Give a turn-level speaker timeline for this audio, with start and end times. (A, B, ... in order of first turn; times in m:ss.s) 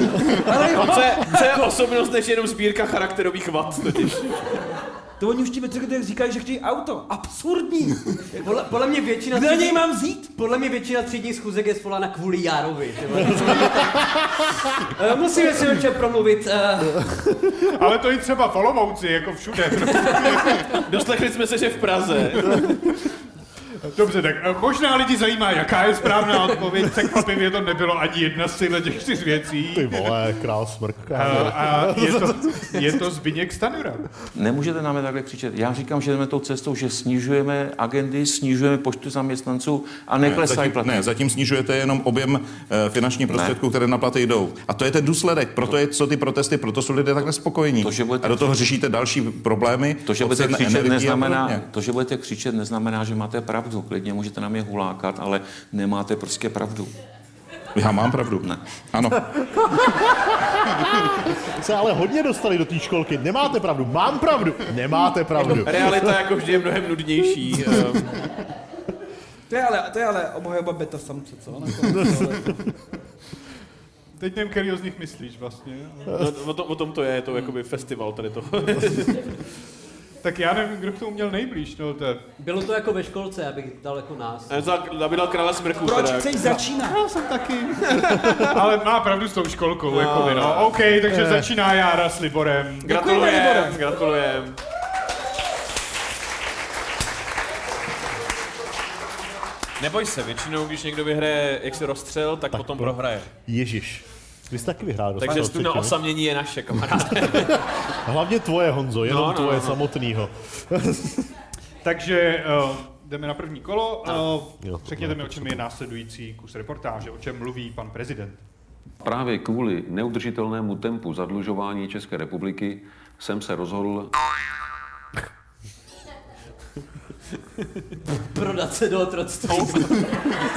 0:00.1-0:04.6 A
0:00.4-0:01.6 B
0:05.2-0:08.4 B
0:08.4-0:17.4 C
0:09.3-0:10.3 B
0:17.6-0:20.6 D
0:20.2-0:22.7 A
0:22.5-0:23.0 D
0:23.7-0:30.2 D
0:29.7-0:32.6 E
0:31.1-0:34.3 D
0:34.4-0:41.1 F
0:40.2-0:51.6 G
0:43.3-0:43.6 F
0:47.8-0:48.6 F
0:50.0-0:56.9 F
0:57.7-0:59.2 G
0:59.3-1:06.0 E
1:05.4-1:08.4 A
1:09.5-1:12.7 B
1:14.2-1:16.2 D
1:16.1-1:19.4 A
1:20.2-1:22.2 D
1:22.4-1:24.5 C
1:24.5-1:26.5 A
1:25.8-1:27.0 B
1:26.6-1:27.9 D
1:27.9-1:28.4 A
1:28.4-1:32.9 D
1:29.9-1:30.8 A
1:31.1-1:31.4 E
1:32.8-1:33.8 B
1:32.8-1:34.6 A
1:39.8-1:43.3 A
1:42.5-1:42.9 E
1:43.4-1:46.0 E
1:45.2-1:47.7 A
1:48.0-1:51.3 E
1:49.0-1:49.8 A
1:51.8-1:58.4 D
1:54.6-1:55.6 E
1:59.0-2:04.1 H
2:08.3-2:10.4 C
2:09.5-2:09.8 A